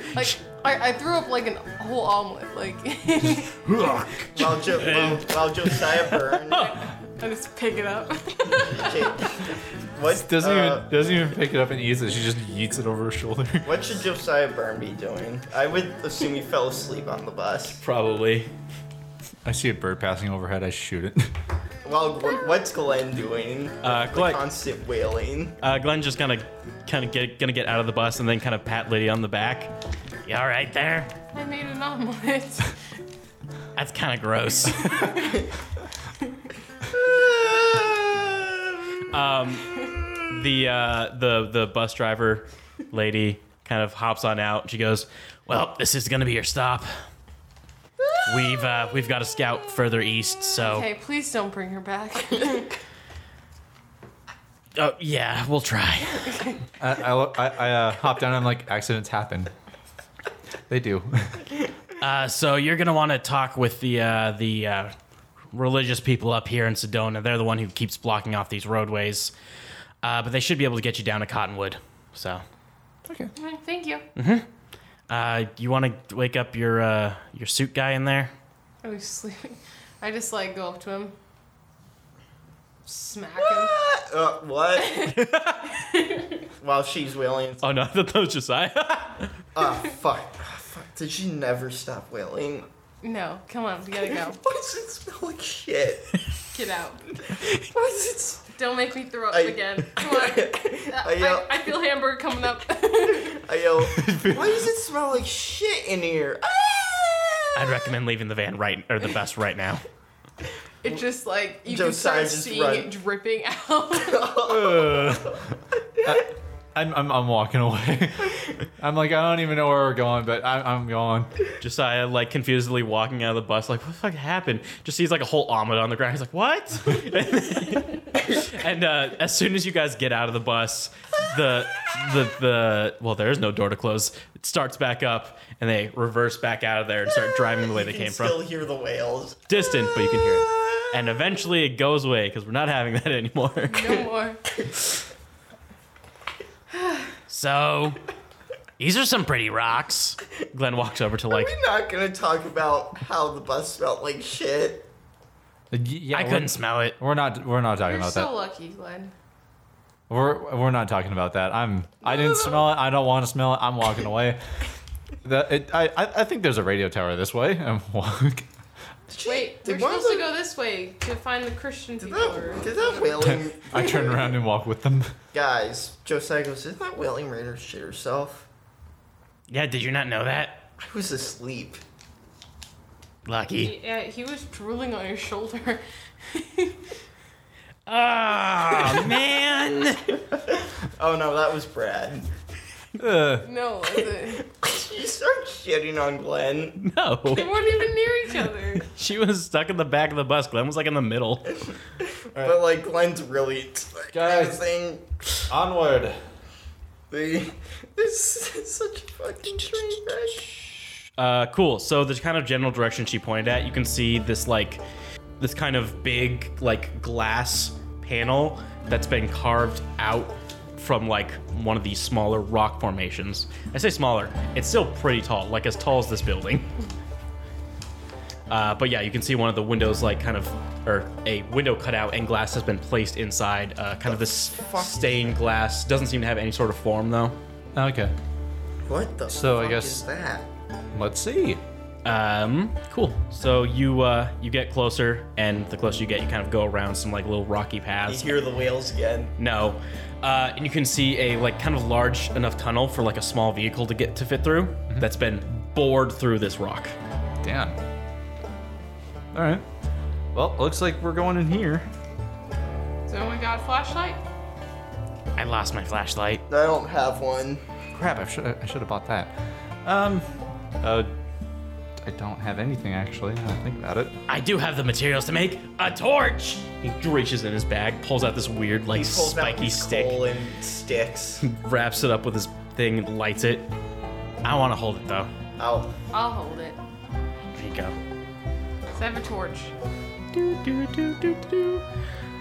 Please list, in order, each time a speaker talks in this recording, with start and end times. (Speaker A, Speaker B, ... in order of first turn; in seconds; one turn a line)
Speaker A: 0.1-3.6
Speaker B: 4.0-6.8
Speaker C: 4.3-6.8
Speaker A: 6.6-9.3
Speaker C: 8.5-10.9
Speaker D: 10.1-13.7
Speaker C: 13.6-17.8
Speaker B: 17.8-18.5
Speaker D: 19.4-21.3
Speaker C: 21.8-25.6
Speaker B: 23.8-24.4
Speaker B: 25.6-29.7
Speaker B: 30.2-31.1
Speaker A: 31.3-32.8
Speaker B: 33.7-35.1
Speaker A: 34.9-35.4
Speaker C: 36.9-38.6
Speaker B: 39.1-46.9
Speaker C: 39.8-40.2
Speaker C: 48.0-48.6
Speaker B: 48.2-50.9
Speaker A: 50.6-52.8
Speaker B: 54.7-56.4
Speaker A: 56.3-56.6
Speaker D: 56.8-59.5
Speaker D: 60.7-61.5
Speaker B: 62.0-64.9
Speaker B: 65.5-69.3
Speaker B: 70.0-72.4
Speaker D: 73.1-73.3
Speaker A: 73.3-74.0
Speaker B: 74.2-74.5
Speaker B: 75.1-78.3
Speaker A: 78.8-81.1
Speaker A: 82.8-83.8
Speaker C: 83.4-85.2
Speaker A: 84.8-85.2
Speaker B: 85.1-85.8
Speaker A: 85.7-86.4
Speaker C: 86.6-87.7
Speaker B: 87.6-89.3
Speaker C: 89.5-92.7
Speaker A: 93.0-94.4
Speaker C: 94.2-96.2
Speaker A: 96.5-97.0
Speaker C: 97.2-98.4
Speaker A: 98.5-103.4
Speaker C: 99.3-101.7
Speaker C: 103.0-107.9
Speaker D: 103.8-104.7
Speaker B: 107.5-109.8
Speaker A: 110.8-114.3
Speaker C: 111.7-112.9
Speaker C: 113.9-115.4
Speaker D: 114.4-115.4
Speaker D: 116.0-121.3
Speaker B: 121.6-138.4
Speaker C: 137.7-141.2
Speaker B: 139.5-144.0
Speaker A: 143.7-144.4
Speaker B: 147.3-148.0
Speaker B: 148.8-151.5
Speaker C: 151.3-154.9
Speaker D: 155.7-158.3
Speaker B: 156.1-157.0
Speaker A: 157.8-159.1
Speaker D: 160.1-164.4
Speaker C: 162.1-162.6
Speaker D: 165.2-168.5
Speaker C: 169.1-170.3
Speaker A: 169.2-173.1
Speaker C: 172.0-174.4
Speaker D: 173.2-175.1
Speaker C: 175.3-178.5
Speaker B: 179.5-180.7
Speaker C: 180.8-181.8
Speaker B: 183.2-183.7
Speaker A: 183.6-186.8
Speaker B: 187.9-190.1
Speaker C: 191.0-192.3
Speaker D: 193.0-193.5
Speaker A: 193.4-194.4
Speaker C: 194.2-196.8
Speaker B: 196.8-197.6
Speaker A: 197.3-198.9
Speaker B: 198.8-201.5
Speaker C: 202.1-205.1
Speaker D: 204.1-204.6
Speaker D: 205.5-206.2
Speaker C: 207.1-210.6
Speaker B: 211.2-214.8
Speaker B: 215.4-226.7
Speaker B: 228.5-237.3
Speaker C: 234.0-235.4
Speaker D: 237.7-238.1
Speaker C: 238.8-240.5
Speaker D: 239.3-240.0
Speaker D: 240.9-241.6
Speaker B: 242.0-248.4
Speaker C: 248.1-249.3
Speaker B: 249.4-256.9
Speaker D: 257.4-257.8
Speaker D: 259.3-259.6
Speaker D: 260.3-261.9
Speaker A: 263.1-264.2
Speaker B: 265.4-266.4
Speaker C: 266.5-267.6
Speaker D: 267.9-269.3
Speaker D: 269.8-270.3
Speaker D: 270.8-271.1
Speaker D: 272.0-274.2
Speaker B: 274.3-280.2
Speaker C: 278.9-281.4
Speaker B: 281.4-283.7
Speaker B: 284.4-285.3
Speaker C: 285.6-285.9
Speaker A: 286.1-286.8
Speaker B: 287.5-287.9
Speaker A: 288.9-289.7
Speaker B: 290.3-291.8